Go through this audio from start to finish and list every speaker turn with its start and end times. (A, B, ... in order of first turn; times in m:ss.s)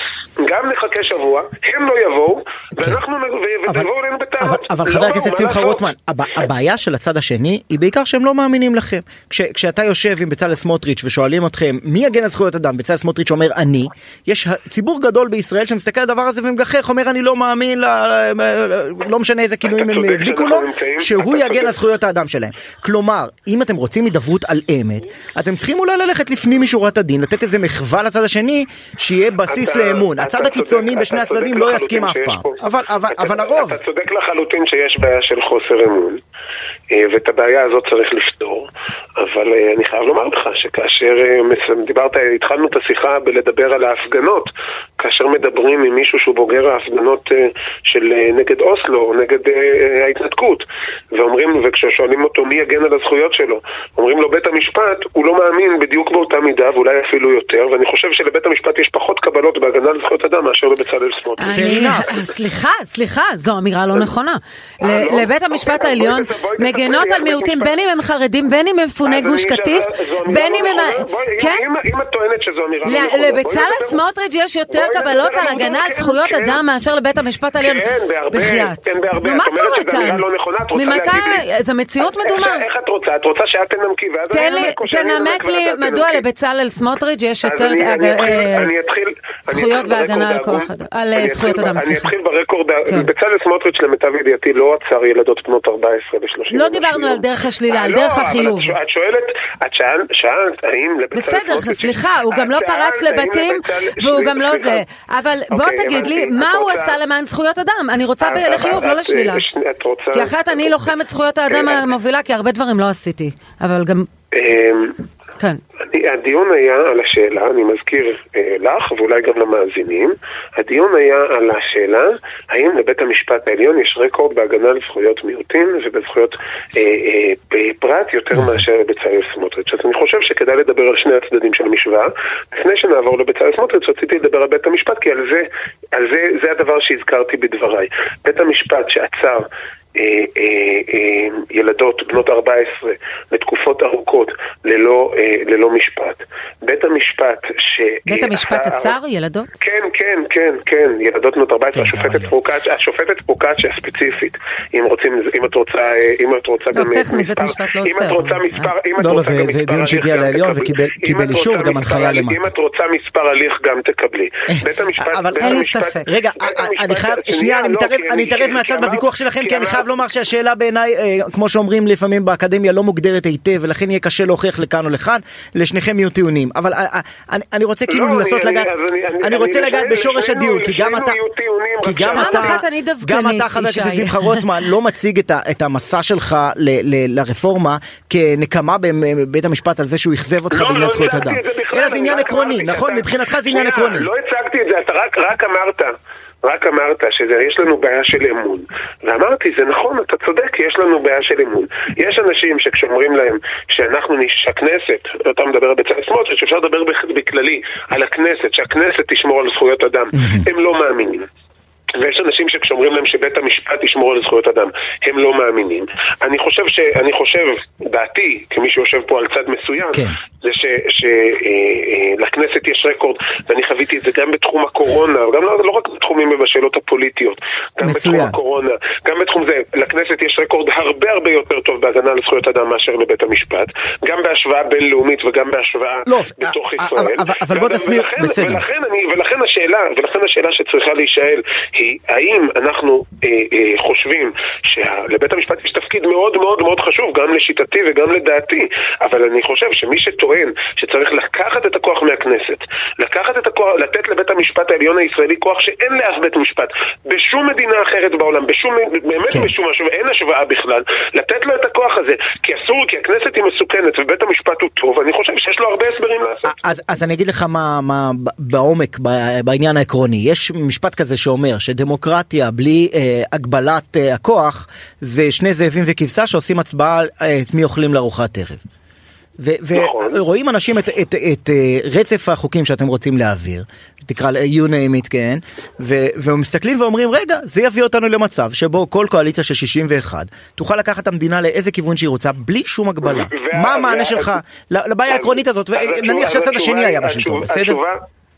0:00.4-0:05.8 A
0:03.7-0:33.8 B
0:19.6-0:21.7 A
0:29.5-0:32.6 A
0:33.1-0:36.2 A
0:36.9-1:02.2 A
1:01.4-1:11.6 C
1:01.5-1:02.2 B
1:04.8-1:07.8 A
1:09.0-1:14.0 A
1:12.8-1:22.6 C
1:14.7-1:16.6 A
1:17.6-1:21.4 A
1:22.0-1:26.2 A
1:24.3-1:28.7 C
1:27.4-1:44.8 A
1:29.4-1:32.1 C
1:36.5-1:38.7 C
1:41.1-1:49.4 C
1:45.5-1:47.0 A
1:48.2-1:50.9 A
1:50.1-1:54.1 C
1:51.5-1:51.9 A
1:54.3-1:55.0 A
1:55.8-2:29.0 A
2:28.1-2:29.5 C
2:29.6-2:49.8 A
2:31.7-2:32.3 B
2:36.7-2:38.7 C
2:39.0-2:42.4 B
2:44.5-3:01.2 B
2:45.4-2:46.1 C
2:57.9-3:02.6 A
3:01.8-3:14.1 B
3:02.1-3:04.4 C
3:10.5-3:31.3 A
3:31.9-4:26.8 A
3:47.8-3:48.4 B
3:56.0-3:58.6 B
4:26.4-4:38.6 B
4:39.4-4:57.8 B
4:39.7-4:40.2 A
4:53.0-4:54.4 A
4:55.1-4:58.0 A